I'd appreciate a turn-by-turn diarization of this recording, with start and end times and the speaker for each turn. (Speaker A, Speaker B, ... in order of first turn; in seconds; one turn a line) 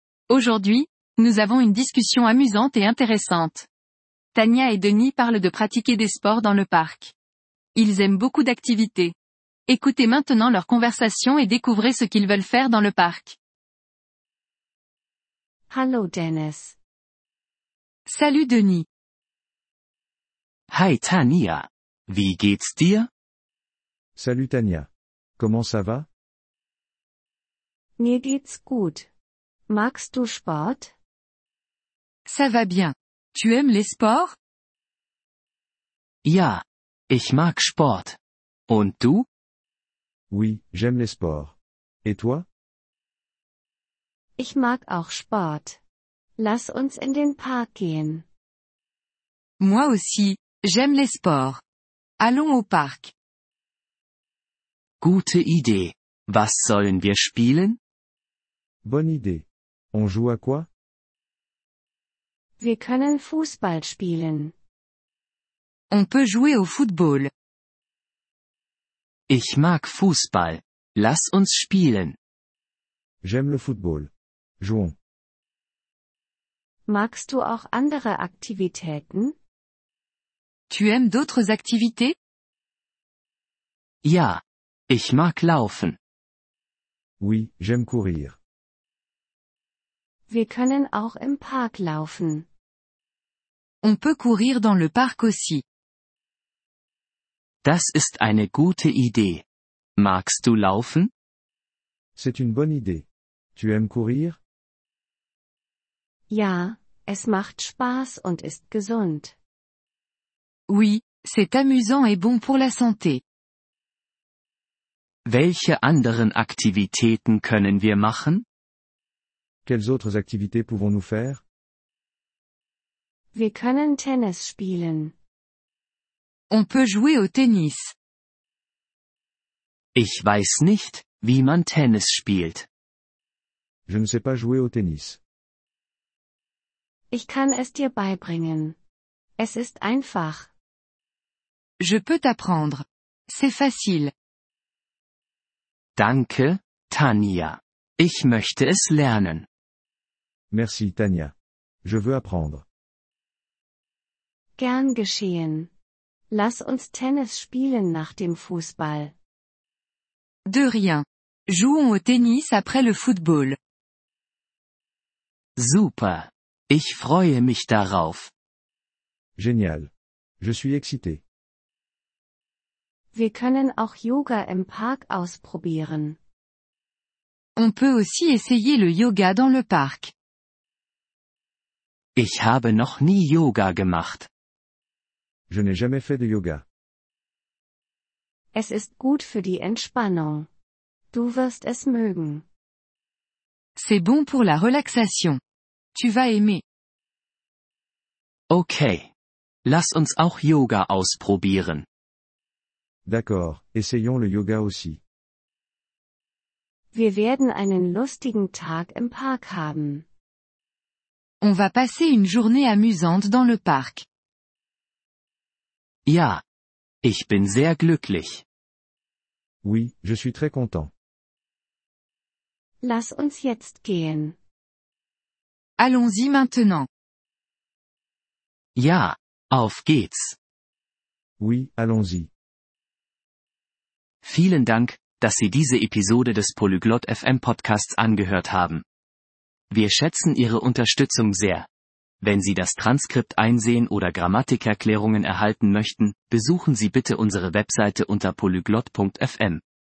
Speaker A: 0.3-3.7
Speaker A: 4.3-7.1
Speaker A: 7.7-9.2
Speaker A: 9.7-13.4
Speaker B: 15.7-16.8
Speaker A: 18.1-18.9
Speaker C: 20.7-23.1
Speaker D: 24.2-26.1
Speaker B: 28.0-29.1
Speaker B: 29.7-30.9
Speaker A: 32.3-34.4
Speaker C: 36.2-39.3
Speaker D: 40.3-42.5
Speaker B: 44.4-45.8
Speaker B: 46.4-48.3
Speaker A: 49.6-51.6
Speaker A: 52.2-53.1
Speaker C: 55.0-57.8
Speaker D: 58.8-60.7
Speaker B: 62.6-64.5
Speaker A: 65.9-67.3
Speaker C: 69.3-72.2
Speaker D: 73.2-75.0
Speaker B: 76.9-79.4
Speaker A: 80.7-82.2
Speaker C: 84.0-86.0
Speaker D: 87.2-88.4
Speaker B: 90.3-92.5
Speaker A: 93.8-95.6
Speaker C: 97.6-99.4
Speaker C: 100.0-101.1
Speaker D: 102.2-104.4
Speaker B: 106.3-109.4
Speaker A: 110.7-113.2
Speaker C: 115.3-118.5
Speaker D: 119.7-121.4
Speaker B: 123.3-125.2
Speaker A: 126.5-128.0
Speaker C: 130.0-132.7
Speaker D: 133.9-135.2
Speaker B: 137.1-138.8
Speaker B: 139.4-140.5
Speaker A: 141.8-144.1
Speaker C: 146.0-149.5
Speaker D: 150.5-151.3
Speaker D: 151.8-152.7
Speaker B: 154.6-155.7
Speaker B: 156.3-159.2
Speaker A: 160.5-163.6
Speaker C: 165.6-168.3
Speaker D: 169.4-171.2
Speaker B: 173.1-176.2
Speaker A: 177.6-180.1
Speaker C: 182.2-184.3
Speaker D: 185.5-186.7
Speaker B: 188.5-190.5
Speaker B: 191.1-192.4
Speaker A: 193.8-195.4
Speaker A: 195.9-196.6
Speaker C: 198.5-199.1
Speaker C: 199.7-201.9
Speaker D: 203.1-205.0
Speaker B: 206.9-210.1
Speaker A: 211.4-214.1
Speaker C: 216.1-216.4
Speaker C: 217.0-218.4
Speaker D: 219.6-220.9
Speaker B: 222.8-224.4
Speaker A: 225.8-226.9
Speaker C: 228.8-230.4
Speaker D: 231.4-232.3
Speaker C: 234.2-238.8
Speaker C: 239.7-241.7
Speaker C: 242.2-249.6